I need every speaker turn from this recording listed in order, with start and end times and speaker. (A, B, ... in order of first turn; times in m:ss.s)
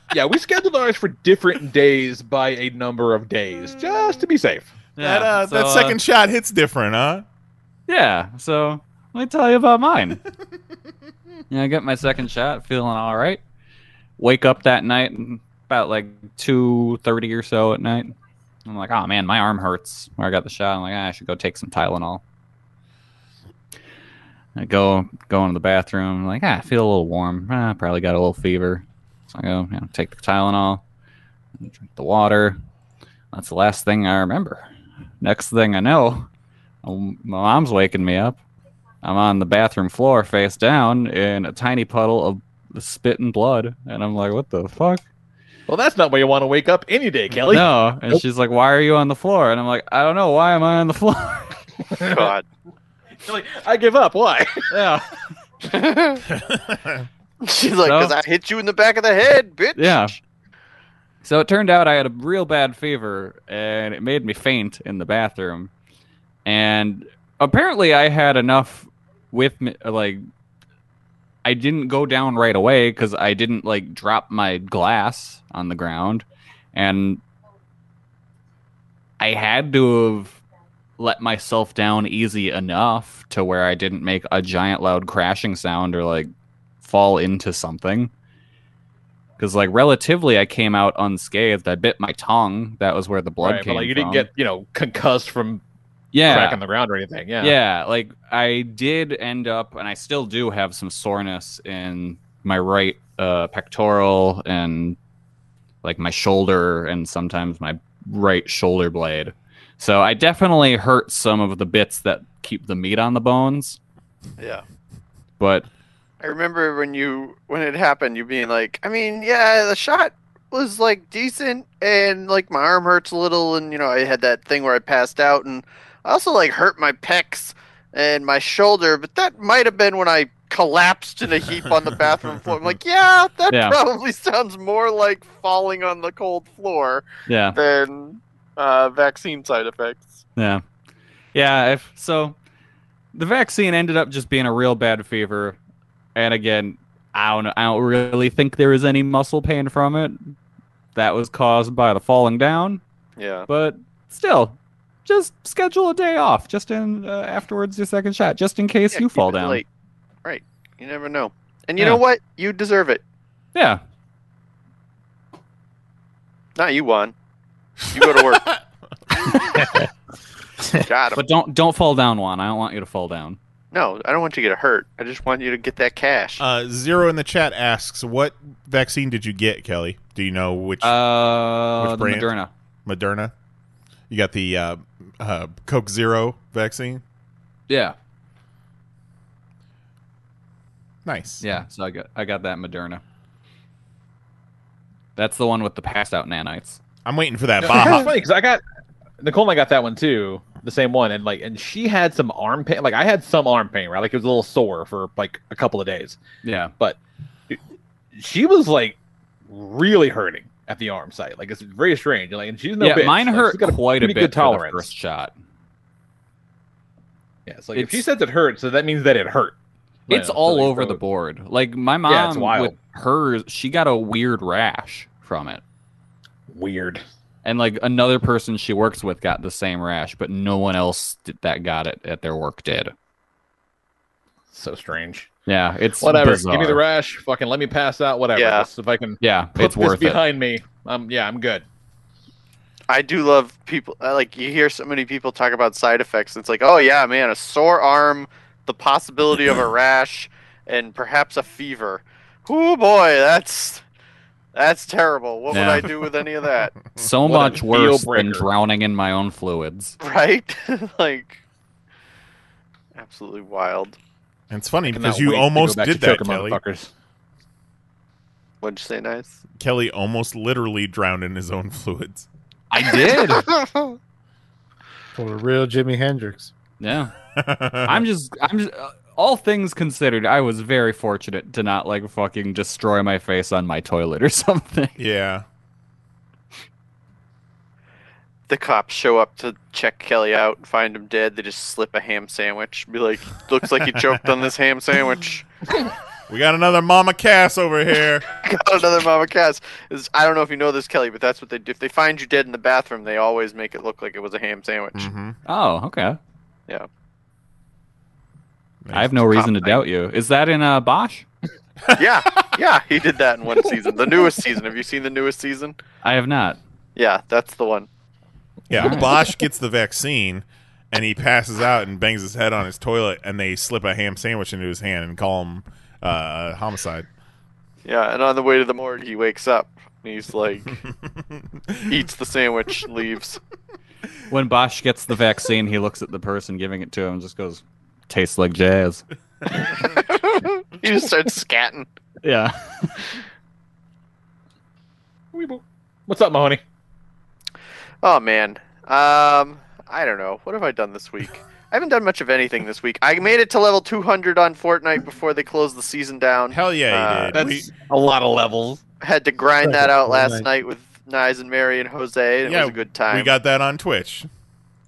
0:00.1-0:04.7 A
0:05.0-0:06.0 B
0:05.0-0:07.2 C
0:07.9-0:10.2 B
0:11.5-0:13.4 B
0:14.2-0:22.2 B
0:24.6-0:30.8 B
0:31.6-0:32.6 B
0:33.3-0:34.7 B
0:35.2-0:36.3 B
0:36.8-0:38.4 B
0:39.0-0:45.0 B
0:45.7-0:48.2 A
0:47.5-0:51.6 B
0:51.9-0:52.3 A
0:52.1-0:52.4 D
0:53.2-0:54.7 A
0:54.7-0:55.0 B
0:55.7-0:56.2 D
0:56.3-0:57.1 C
0:57.4-1:00.1 D
0:57.8-0:58.1 B
0:59.8-1:00.1 B
1:01.2-1:05.7 B
1:06.4-1:10.2 B
1:11.4-1:17.2 B
1:19.2-1:20.4 B
1:21.0-1:26.3 B
1:26.8-1:28.1 B
1:29.4-1:34.3 B
1:33.4-1:35.6 A
1:36.1-1:36.6 B
1:36.3-1:37.6 A
1:37.4-1:45.0 B
1:45.8-1:53.8 B
1:54.4-1:54.6 D
1:55.4-1:55.7 B
1:56.2-2:20.2 D
2:13.5-2:13.8 B
2:17.3-2:17.6 B
2:20.4-2:20.6 B
2:21.3-2:22.4 B
2:23.1-2:25.6 B
2:26.2-2:30.4 B
2:31.0-2:32.8 B
2:33.2-2:33.5 D
2:33.5-2:39.6 B
2:38.9-2:39.7 D
2:40.2-2:43.0 D
2:43.6-2:43.8 B
2:46.6-2:47.1 D
2:47.9-2:48.5 D
2:50.8-2:51.2 D
2:51.2-2:53.4 B
2:53.7-2:56.4 D
2:56.4-3:01.0 C
3:00.8-3:02.5 B
3:01.8-3:02.3 C
3:02.9-3:03.3 C
3:04.1-3:07.0 C
3:07.7-3:08.0 B
3:11.0-3:11.4 C
3:11.4-3:13.0 B
3:15.2-3:16.8 B
3:17.0-3:18.1 C
3:17.6-3:18.6 A
3:19.2-3:26.2 A
3:26.4-3:26.7 B
3:28.2-3:34.9 A
3:32.8-3:35.3 B
3:37.5-3:39.6 A
3:37.7-3:38.0 B
3:40.1-3:41.0 A
3:40.1-3:45.6 B
3:42.1-3:42.8 A
3:46.5-3:47.0 A
3:47.4-3:52.9 B
3:54.5-3:55.3 A
3:55.5-3:56.8 B
3:56.0-4:01.7 A
3:58.4-3:58.7 D
3:59.2-4:00.2 B
4:02.9-4:13.8 D
4:14.6-4:16.8 D
4:15.5-4:15.9 B
4:17.0-4:20.0 B
4:17.2-4:18.5 A
4:20.0-4:21.4 D
4:23.0-4:24.0 D
4:24.5-4:26.6 C
4:24.9-4:26.9 A
4:28.6-4:29.4 D
4:29.6-4:32.3 C
4:32.7-4:33.5 B
4:35.2-4:36.5 E
4:36.8-4:37.1 B
4:37.4-4:38.0 C
4:37.8-4:45.0 B
4:45.0-4:45.4 C
4:48.5-4:55.5 D
4:56.3-4:58.2 C
4:58.4-5:05.1 D
5:05.0-5:05.4 C
5:05.5-5:06.2 B
5:08.8-5:09.5 C
5:08.9-5:11.3 B
5:12.0-5:15.8 D
5:16.0-5:16.6 B
5:17.0-5:17.9 D
5:18.7-5:19.2 A
5:18.7-5:27.1 C
5:18.8-5:19.1 B
5:27.8-5:30.8 D
5:31.4-5:31.9 C
5:31.9-5:33.4 D
5:34.3-5:39.0 B
5:39.5-5:41.9 D
5:42.2-5:43.0 B
5:45.3-5:46.6 A
5:48.0-5:57.4 D
5:56.5-5:57.7 C
5:57.3-5:58.8 A
5:59.0-6:03.3 D
5:59.6-6:00.5 E
6:02.4-6:04.3 C